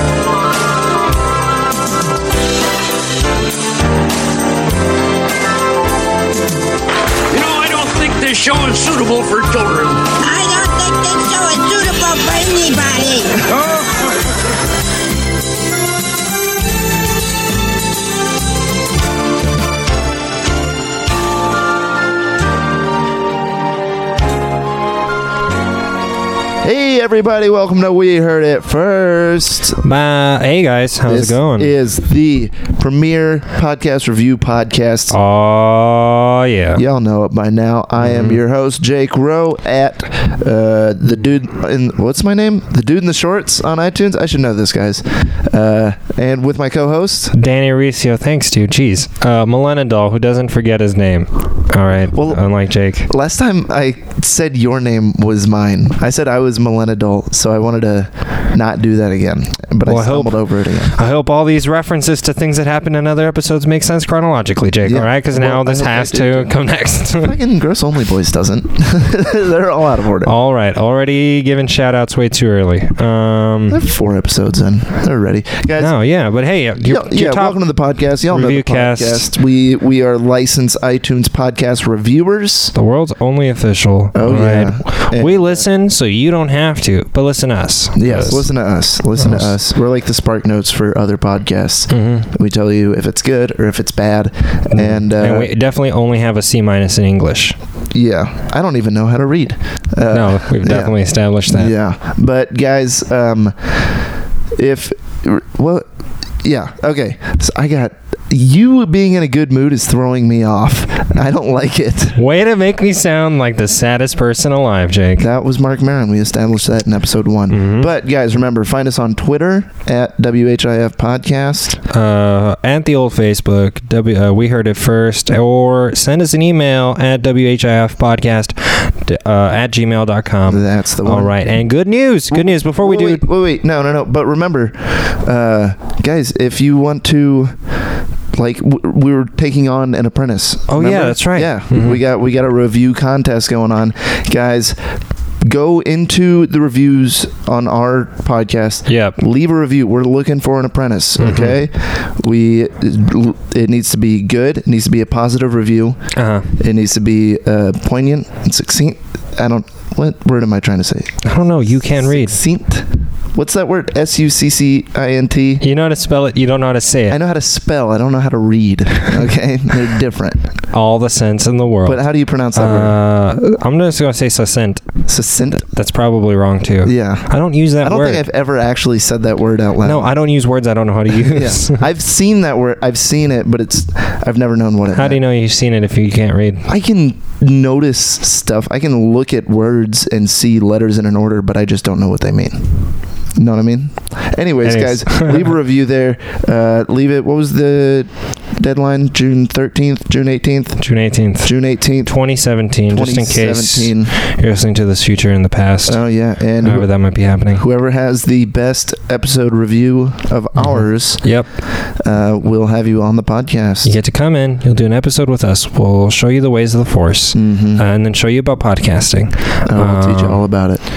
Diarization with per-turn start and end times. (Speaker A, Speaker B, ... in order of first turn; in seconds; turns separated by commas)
Speaker A: 7.3-10.0, Speaker B: 10.2-13.5, Speaker A: 13.5-14.1, Speaker C: 26.6-29.8, Speaker D: 29.8-31.7, Speaker C: 31.0-35.1, Speaker D: 35.1-36.8, Speaker C: 36.7-47.3, Speaker D: 38.0-38.4, Speaker D: 47.3-53.1, Speaker C: 52.1-52.4, Speaker C: 53.0-60.9, Speaker D: 59.9-67.3, Speaker C: 64.8-66.5, Speaker C: 67.2-70.3, Speaker D: 70.2-73.8, Speaker C: 73.7-75.9, Speaker D: 75.8-77.6, Speaker C: 76.8-82.7, Speaker D: 78.3-79.3, Speaker D: 82.7-88.5, Speaker C: 84.1-85.6, Speaker C: 87.9-95.5, Speaker D: 89.2-89.5, Speaker D: 91.9-92.3, Speaker D: 94.7-97.5, Speaker C: 97.9-101.0, Speaker D: 100.1-101.7, Speaker C: 101.5-105.9, Speaker C: 106.4-112.2, Speaker D: 112.1-115.3, Speaker C: 115.2-121.8, Speaker D: 117.5-117.9, Speaker D: 121.9-133.2, Speaker C: 130.4-131.3, Speaker C: 132.3-137.6, Speaker C: 138.3-144.8, Speaker D: 140.7-142.0, Speaker C: 145.4-156.0, Speaker D: 148.9-149.2, Speaker D: 151.2-151.6, Speaker D: 156.1-156.5, Speaker C: 156.5-161.2, Speaker D: 161.2-162.4, Speaker C: 161.8-165.6, Speaker D: 165.6-167.2, Speaker C: 167.1-170.5, Speaker D: 170.7-172.0, Speaker C: 171.8-172.9, Speaker D: 172.5-174.9, Speaker C: 175.1-175.7, Speaker D: 175.7-178.2, Speaker C: 176.8-180.1, Speaker D: 179.8-181.8, Speaker C: 181.1-185.2, Speaker D: 184.9-186.7, Speaker C: 186.7-192.8, Speaker C: 193.3-200.8, Speaker D: 194.6-195.5, Speaker D: 200.8-206.0, Speaker C: 201.4-202.1, Speaker C: 202.9-204.1, Speaker C: 205.9-206.9, Speaker D: 206.6-207.6, Speaker C: 207.5-213.9, Speaker D: 210.6-211.5, Speaker D: 213.8-220.4, Speaker C: 217.3-217.8, Speaker C: 219.7-220.8